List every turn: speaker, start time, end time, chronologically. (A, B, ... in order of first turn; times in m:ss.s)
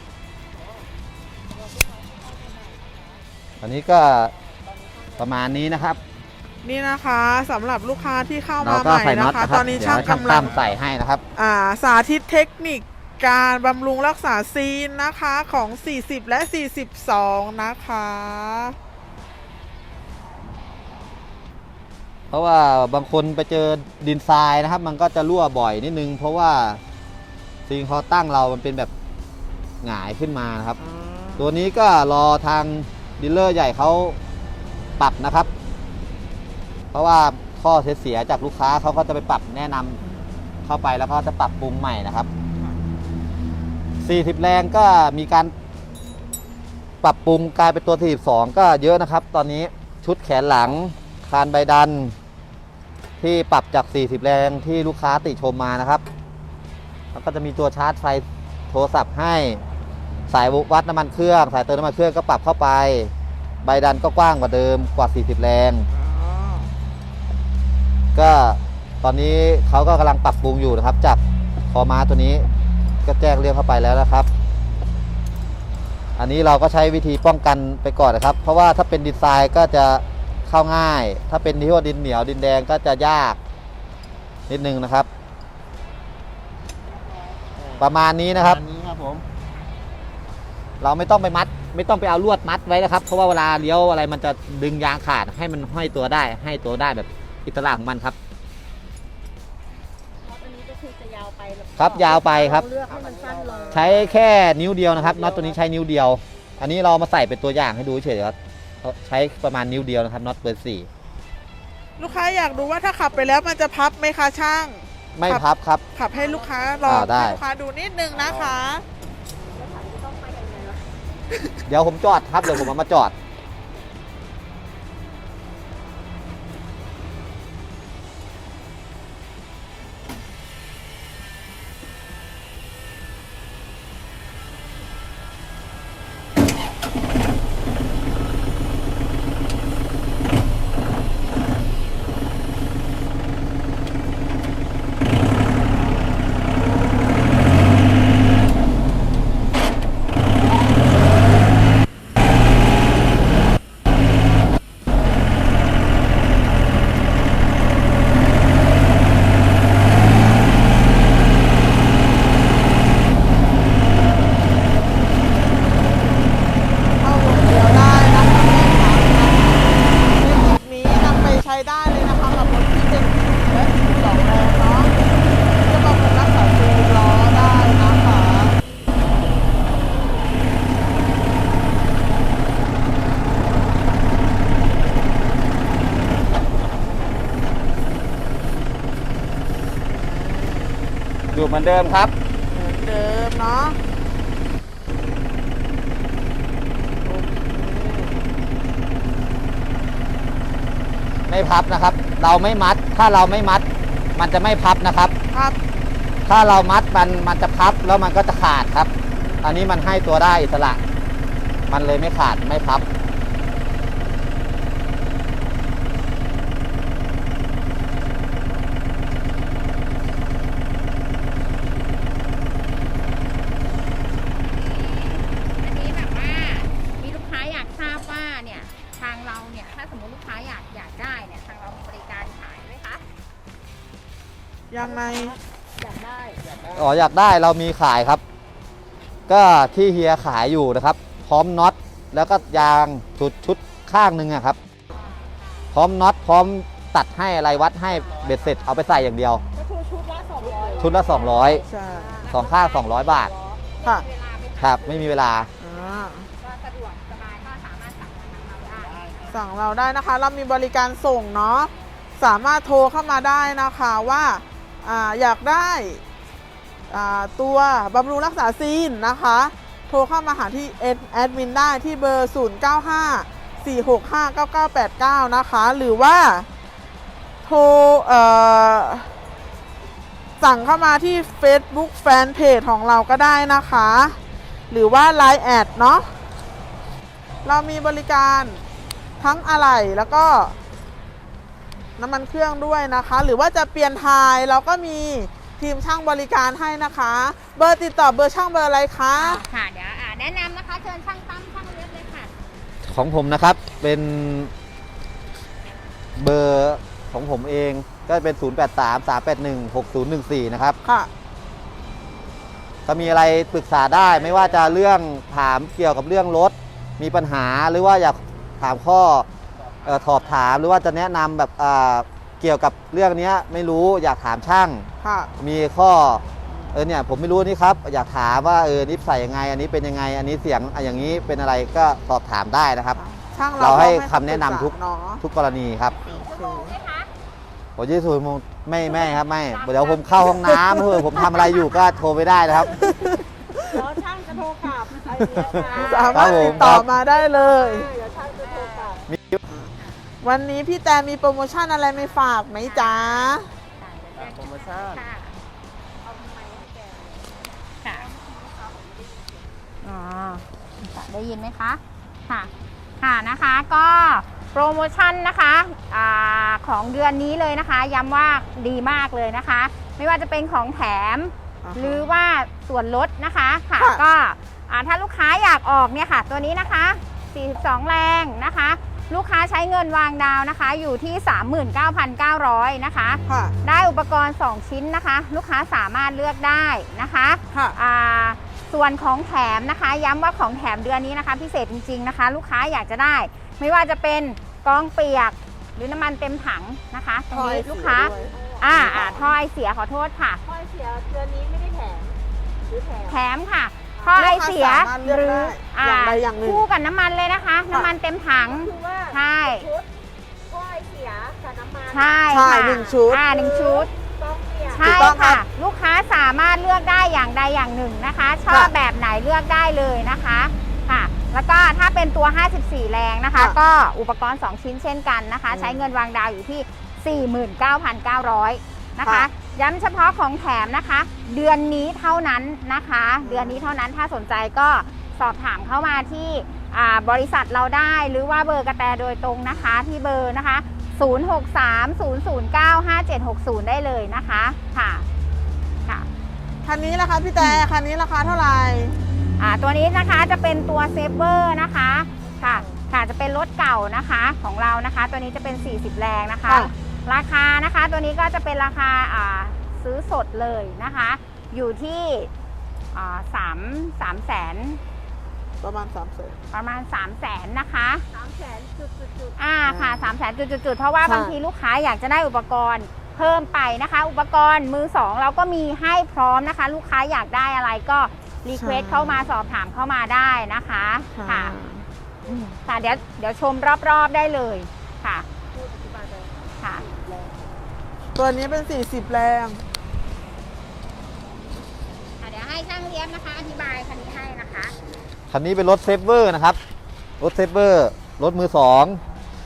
0:01.5-0:03.2 A
0:03.6-0:04.3 B
0:04.4-0:05.2 A
0:05.2-0:06.0 B
0:06.6-0:10.5 C
0:08.6-0:11.2 B
0:09.8-0:10.7 D
0:11.4-0:18.8 C
0:22.3-0:26.8 B
0:27.7-0:28.9 B
0:29.8-0:30.8 B
0:30.8-0:31.5 C
0:31.4-0:34.2 B
0:35.0-0:35.5 B
0:36.9-0:40.0 B
0:40.0-0:40.2 C
0:40.6-0:42.3 B
0:44.0-0:45.5 B
0:47.0-0:52.2 B
0:53.2-0:56.0 B
0:57.1-0:59.6 B
1:00.3-1:03.1 B
1:03.6-1:05.9 B
1:05.9-1:06.7 C
1:08.2-1:12.5 B
1:13.0-1:14.3 B
1:16.2-1:23.4 B
1:24.5-1:25.1 B
1:27.6-1:29.2 D
1:27.8-1:28.6 B
1:30.8-1:38.2 B
1:40.2-1:44.0 A
1:41.8-1:42.7 B
1:42.4-1:44.2 D
1:43.7-1:50.9 B
1:44.9-1:45.6 D
1:52.0-1:58.8 C
1:52.0-1:53.6 A
1:55.2-1:55.8 B
1:56.1-1:57.1 A
1:56.8-1:57.4 B
1:59.4-2:00.9 A
2:01.7-2:03.1 B
2:47.0-2:54.9 C
2:55.6-2:58.6 C
3:11.3-3:12.1 B
3:12.5-3:13.8 C
3:17.0-3:18.2 C
3:21.3-3:25.1 B
3:26.3-3:30.8 B
3:29.2-3:29.5 C
3:31.7-3:32.8 B
3:44.4-3:53.0 E
3:54.7-3:55.4 C
3:54.8-3:56.4 A
3:56.4-3:56.9 D
3:56.8-3:58.2 B
3:59.3-4:04.6 B
4:04.9-4:05.7 E
4:05.7-4:09.4 B
4:07.9-4:08.8 E
4:07.9-4:08.6 D
4:09.6-4:12.4 A
4:10.4-4:11.2 D
4:10.8-4:11.6 B
4:11.7-4:12.2 C
4:12.2-4:19.3 E
4:12.3-4:13.3 B
4:13.0-4:13.6 A
4:14.6-4:15.5 B
4:15.6-4:16.3 C
4:18.8-4:19.4 D
4:19.3-4:26.0 C
4:26.9-4:36.5 C
4:37.4-4:39.1 C
4:40.4-4:44.2 C
4:44.7-4:46.1 C
4:47.4-4:48.6 C
4:49.2-4:50.6 C
4:52.0-4:59.4 C
4:59.2-5:02.3 E
5:02.8-5:04.5 B
5:06.2-5:10.8 B
5:10.8-5:11.1 C
5:12.9-5:19.3 B
5:13.8-5:14.8 D
5:19.6-5:20.5 D
5:19.8-5:33.0 B
5:25.0-5:25.3 C
5:33.0-5:35.2 C
5:33.6-5:36.0 B
5:36.0-5:37.1 E
5:36.1-5:36.7 C
5:37.8-5:42.8 B
5:38.9-5:40.6 E
5:40.3-5:41.5 C
5:41.2-5:42.0 E
5:42.6-5:43.9 C
5:43.7-5:49.0 A
5:45.3-5:46.9 B
5:45.7-5:47.9 C
5:45.8-5:46.4 E
5:48.3-5:49.1 E
5:49.1-5:49.4 B
5:49.7-5:50.1 E
5:50.2-5:53.5 C
5:51.9-5:55.4 E
5:54.2-5:55.1 D
5:56.0-5:59.5 A
5:59.8-6:40.4 E
6:11.6-6:12.1 C
6:23.3-6:23.5 C
6:37.3-6:39.3 C
6:37.8-6:39.3 A
6:40.4-6:42.2 A
6:42.7-6:43.2 A
6:43.1-6:49.7 E
6:44.0-6:44.2 A
6:44.1-6:46.6 C
6:48.5-6:49.9 A
6:50.5-6:55.2 A
6:51.9-6:53.9 E
6:52.3-6:53.3 C
6:54.7-7:25.1 E
6:54.8-6:55.4 C
7:05.5-7:05.9 C
7:09.0-7:09.3 C
7:13.2-7:13.7 C
7:26.6-7:29.0 C
7:27.4-7:27.7 E
7:29.4-7:42.3 E
7:32.2-7:32.8 A
7:42.9-7:44.8 E
7:45.6-7:46.4 C
7:46.5-7:48.0 E
7:48.1-7:49.4 A
7:49.4-8:01.6 E
7:49.6-7:50.2 C
7:51.0-7:51.4 C
7:58.6-7:59.2 C
8:01.2-8:01.8 C
8:02.2-8:03.0 A
8:02.3-8:05.3 E
8:05.5-8:07.4 A
8:06.6-8:06.8 E
8:08.2-8:09.6 C
8:12.2-8:14.7 E
8:15.3-8:16.6 B
8:17.2-8:19.0 B